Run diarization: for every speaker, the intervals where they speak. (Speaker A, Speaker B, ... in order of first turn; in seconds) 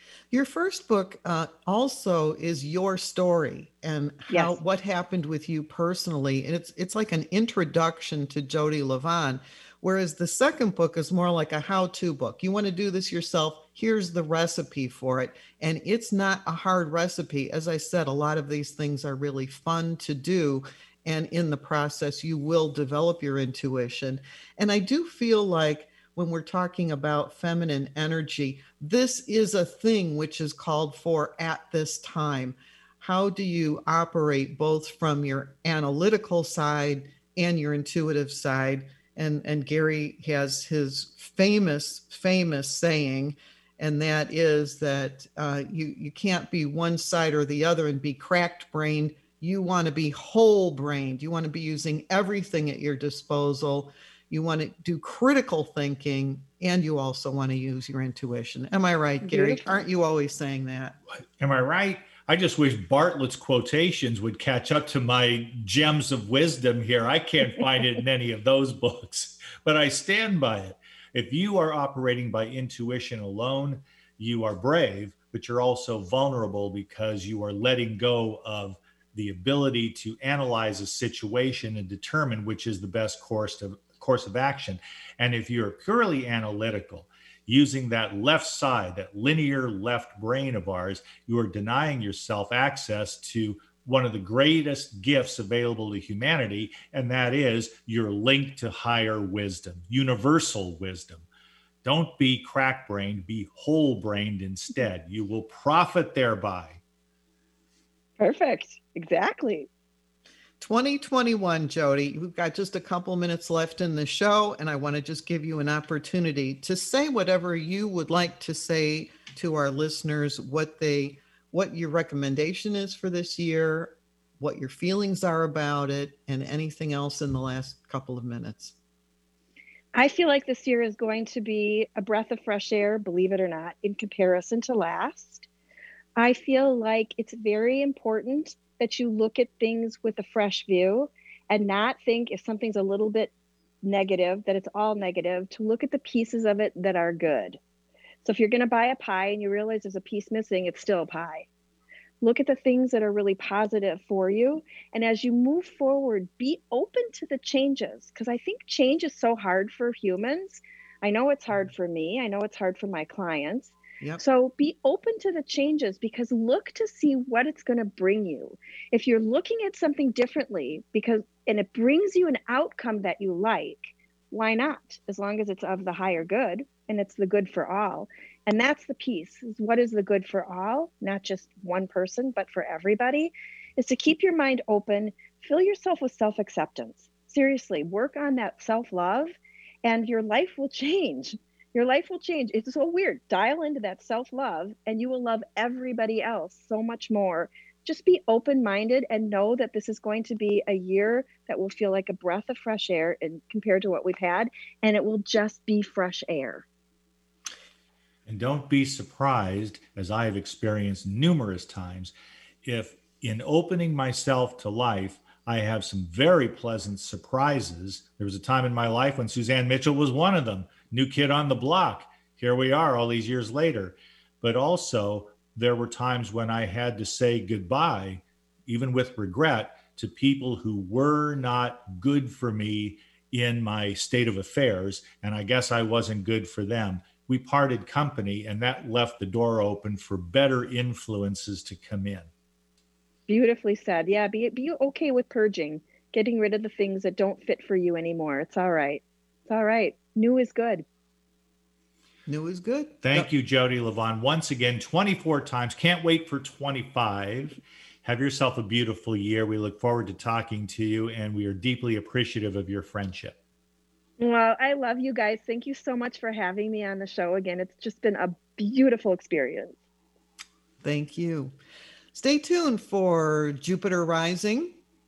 Speaker A: 0.3-61.0, 110.6-128.8, 252.3-253.3, 270.8-271.5, 272.1-274.8
Speaker B: 4.3-4.6, 59.2-59.8, 108.2-109.7, 129.9-135.5, 136.2-143.3, 143.8-147.6, 148.2-151.5, 152.2-206.7, 243.3-250.8, 264.2-269.8
Speaker C: 61.4-101.2, 101.8-106.8, 208.3-212.1, 212.6-242.3, 253.0-263.4